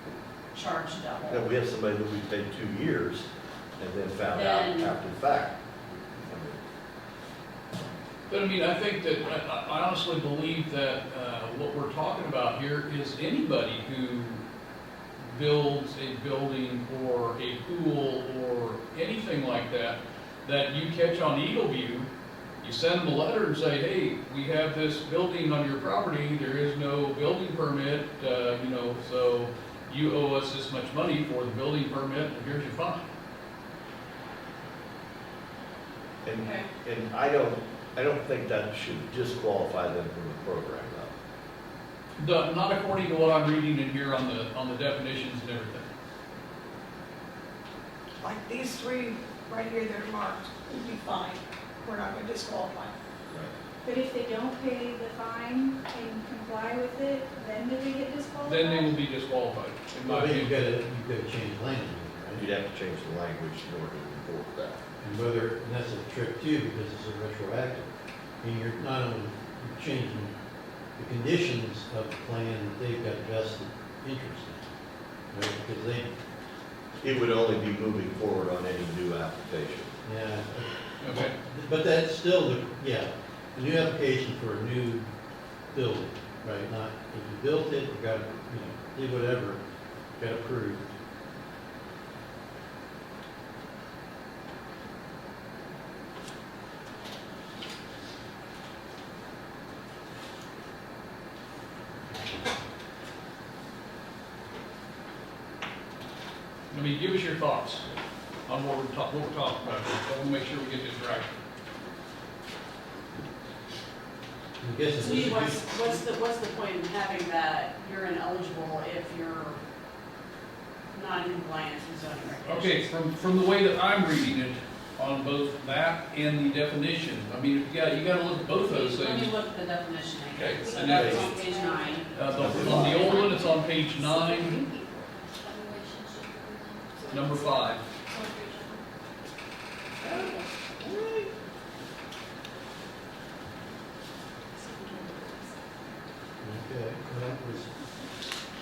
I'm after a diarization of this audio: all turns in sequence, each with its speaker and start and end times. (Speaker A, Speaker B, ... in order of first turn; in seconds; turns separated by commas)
Speaker A: 0.5-1.4, Speaker B: 1.3-6.6, Speaker A: 4.3-4.9, Speaker C: 8.3-14.4, Speaker C: 15.2-22.1, Speaker C: 22.6-33.0, Speaker B: 36.2-41.1, Speaker A: 36.4-36.7, Speaker C: 42.2-45.9, Speaker D: 48.2-52.9, Speaker E: 53.8-59.0, Speaker C: 58.4-60.5, Speaker F: 60.0-62.4, Speaker B: 62.4-64.8, Speaker F: 65.0-67.9, Speaker F: 68.4-70.3, Speaker F: 71.0-74.6, Speaker F: 75.3-76.1, Speaker B: 77.0-79.9, Speaker F: 80.0-85.1, Speaker C: 81.0-81.3, Speaker F: 85.7-89.6, Speaker F: 90.2-90.9, Speaker C: 106.7-107.8, Speaker C: 108.5-111.3, Speaker F: 114.6-115.9, Speaker A: 115.0-119.6, Speaker A: 120.9-122.8, Speaker C: 122.4-129.3, Speaker A: 128.7-132.3, Speaker C: 130.3-131.3, Speaker E: 130.6-137.4, Speaker B: 130.8-131.3, Speaker C: 132.1-134.6, Speaker B: 132.3-133.2, Speaker C: 137.1-137.8, Speaker E: 138.1-138.8, Speaker A: 140.0-140.3, Speaker B: 140.8-141.3, Speaker F: 146.4-147.7